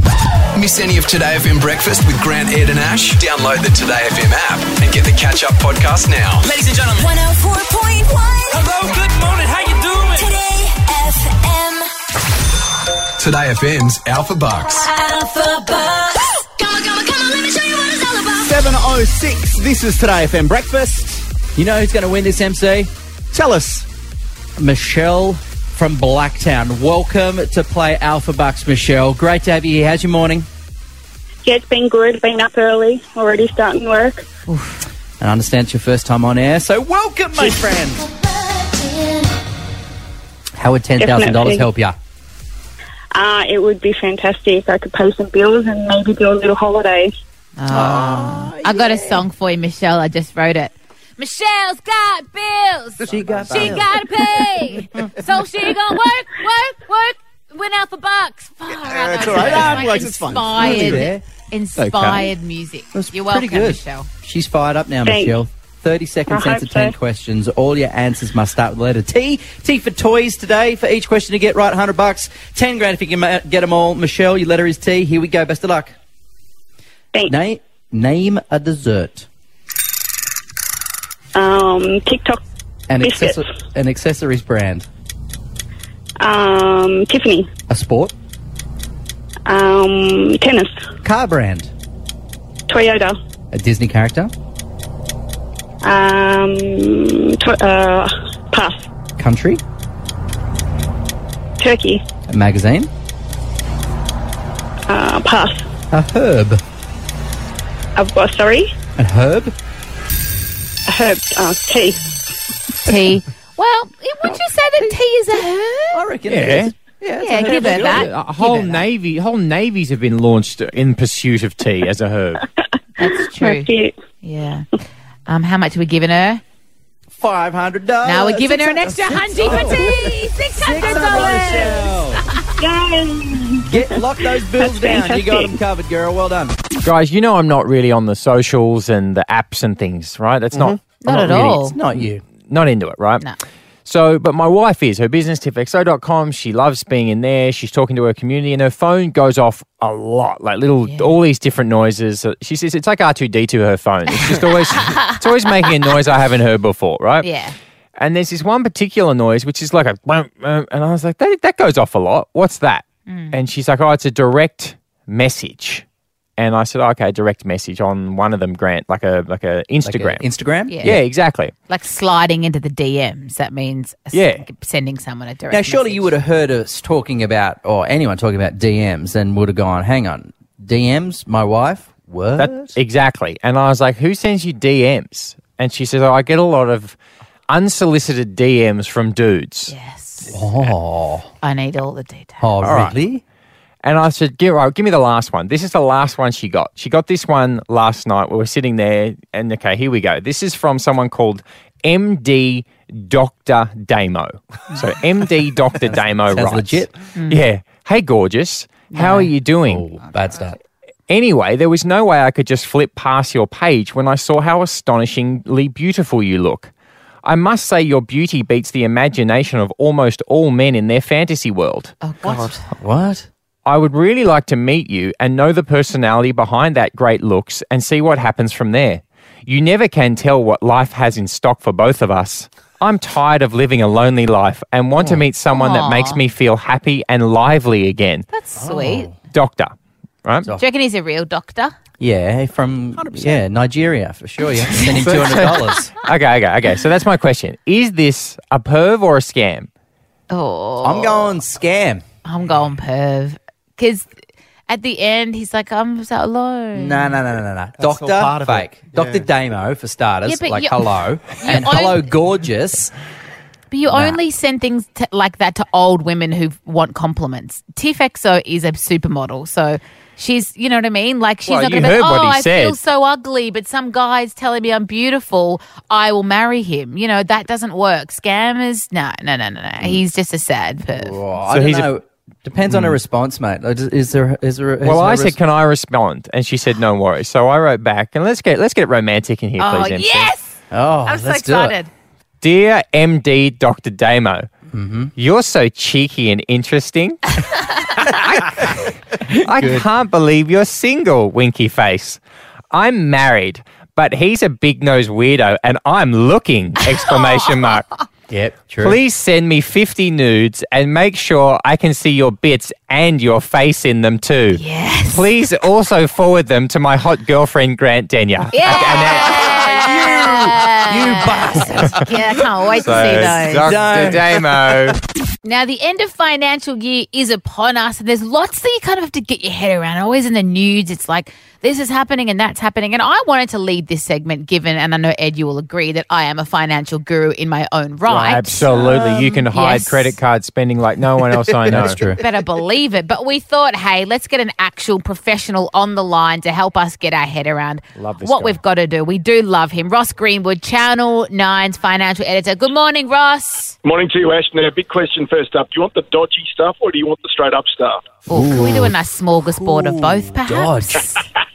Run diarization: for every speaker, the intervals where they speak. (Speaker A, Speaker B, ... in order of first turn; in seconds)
Speaker A: 0.5-6.5, 13.2-14.9
Speaker B: 6.4-7.2, 8.5-10.3
Speaker C: 7.0-8.7, 10.1-11.9, 14.7-18.6
Speaker D: 18.4-21.2, 23.3-23.9, 53.3-53.7, 58.8-61.0, 257.8-259.2
Speaker E: 21.5-22.9, 24.6-30.5, 35.2-38.0, 40.6-41.9, 47.7-49.2, 53.0-54.0, 59.4-59.9, 60.5-61.2, 62.9-75.9, 77.3-79.3, 82.9-84.8, 87.7-88.1, 91.0-91.7, 93.5-94.3, 99.2-99.6, 102.3-102.9, 105.9-106.6, 109.0-109.5, 115.9-118.1, 127.1-132.2, 133.6-136.6, 141.0-142.2, 169.8-171.0, 175.5-182.8, 190.3-191.3, 192.4-193.2, 205.8-206.9, 209.6-210.6, 222.2-223.3, 235.0-235.2, 238.6-239.2, 242.0-245.9, 250.8-252.0, 256.7-262.9, 263.9-264.2, 280.9-285.4, 290.7-291.8, 294.7-295.1, 299.3-299.9, 308.3-309.0, 318.7-322.2, 322.9-324.5, 338.7-339.4, 341.6-342.2, 358.3-358.9, 359.5-361.1
Speaker F: 31.4-34.3, 41.0-41.7, 43.1-47.1, 65.0-65.4, 66.3-66.9, 81.3-82.4, 83.0-83.4, 86.2-87.5, 89.5-90.7, 92.7-93.2, 95.8-98.8, 101.6-102.0, 104.9-105.6, 108.0-108.7, 110.9-112.0, 123.0-123.9, 132.6-133.9, 134.6-135.5
Speaker G: 34.5-34.8, 47.6-64.1, 112.8-116.0, 117.2-118.9, 123.0-123.7, 124.2-124.7, 125.3-126.4, 128.0-132.4, 141.0-141.8, 150.9-151.2, 154.3-155.7, 157.2-157.5, 163.1-163.4, 170.7-171.0, 171.7-176.1, 189.7-190.3, 191.4-192.5, 207.1-207.4, 208.9-209.3, 222.0-222.6, 235.5-236.2, 238.3-239.1, 240.6-241.7, 244.7-245.0, 250.3-251.4, 252.2-254.1, 254.7-257.1, 260.2-262.0, 263.7-281.2, 289.6-291.9, 314.5-315.3, 318.5-323.7, 325.4-340.2, 342.1-353.8, 358.3-361.2
Speaker H: 116.3-116.7, 117.4-122.4, 136.8-140.8, 142.5-143.2, 143.8-157.3, 158.0-165.8, 166.4-170.2, 170.8-171.5, 174.1-174.4, 182.4-187.0, 187.5-189.7, 192.6-192.9, 193.8-209.9, 211.1-216.7, 217.2-221.9, 223.7-238.3, 239.3-239.7, 245.0-249.7, 271.5-272.8, 281.5-281.9, 282.7-283.0, 284.8-290.3, 292.4-294.5, 295.1-297.3, 297.9-302.2, 302.7-307.9, 308.8-314.6, 315.1-319.6, 322.8-325.0, 338.1-342.0, 347.9-348.6
Speaker I: 353.8-358.2